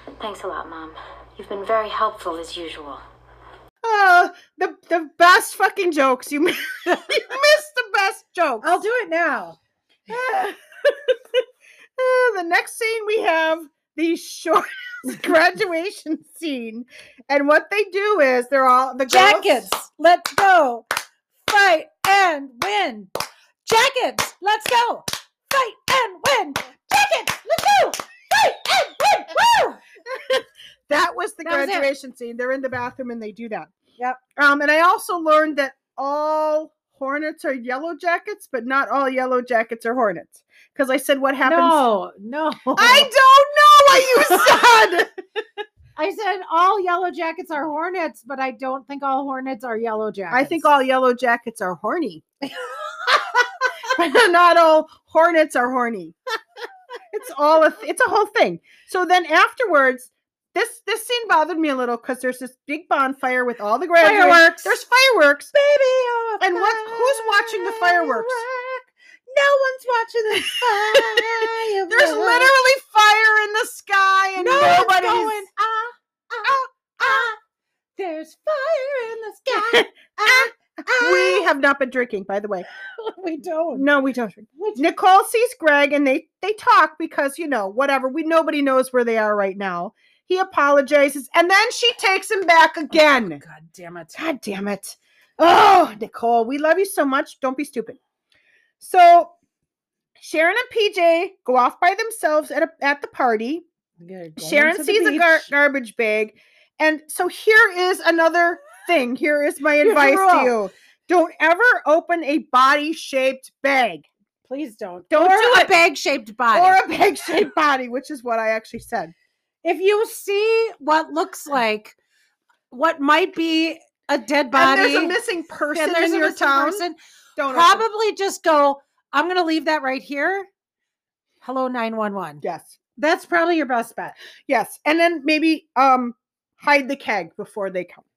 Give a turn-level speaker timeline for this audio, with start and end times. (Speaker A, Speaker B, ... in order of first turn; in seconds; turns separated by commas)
Speaker A: 0.2-3.0, Speaker B: 3.8-8.8, Speaker C: 8.6-9.6, Speaker B: 10.1-11.4, Speaker B: 12.0-19.7, Speaker C: 19.1-20.8, Speaker C: 21.4-23.1, Speaker C: 23.6-29.8, Speaker B: 30.1-33.7, Speaker C: 31.4-31.9, Speaker B: 34.4-41.8, Speaker C: 41.4-43.1, Speaker B: 42.7-45.1, Speaker C: 46.0-50.7, Speaker B: 50.3-52.2, Speaker C: 52.4-53.4, Speaker B: 53.8-56.1, Speaker B: 57.1-65.5, Speaker C: 64.0-64.8, Speaker C: 65.5-72.5, Speaker B: 66.4-68.4, Speaker B: 70.4-75.4, Speaker C: 74.4-77.4, Speaker B: 76.4-77.2, Speaker C: 78.0-81.5, Speaker B: 79.5-82.7, Speaker C: 83.0-83.9, Speaker B: 83.7-93.4, Speaker C: 84.5-84.8, Speaker C: 92.9-94.2, Speaker B: 94.1-98.0, Speaker B: 98.8-99.3, Speaker B: 100.2-103.7, Speaker C: 104.0-105.5, Speaker B: 104.4-114.1, Speaker C: 109.8-110.5, Speaker C: 114.5-116.8, Speaker B: 115.1-115.7, Speaker B: 116.5-119.1, Speaker C: 119.6-122.0, Speaker C: 122.7-125.2, Speaker B: 124.5-126.8, Speaker C: 125.7-130.5, Speaker B: 127.4-127.8, Speaker C: 131.4-132.4, Speaker B: 132.4-132.8, Speaker C: 133.0-134.1, Speaker B: 134.5-138.0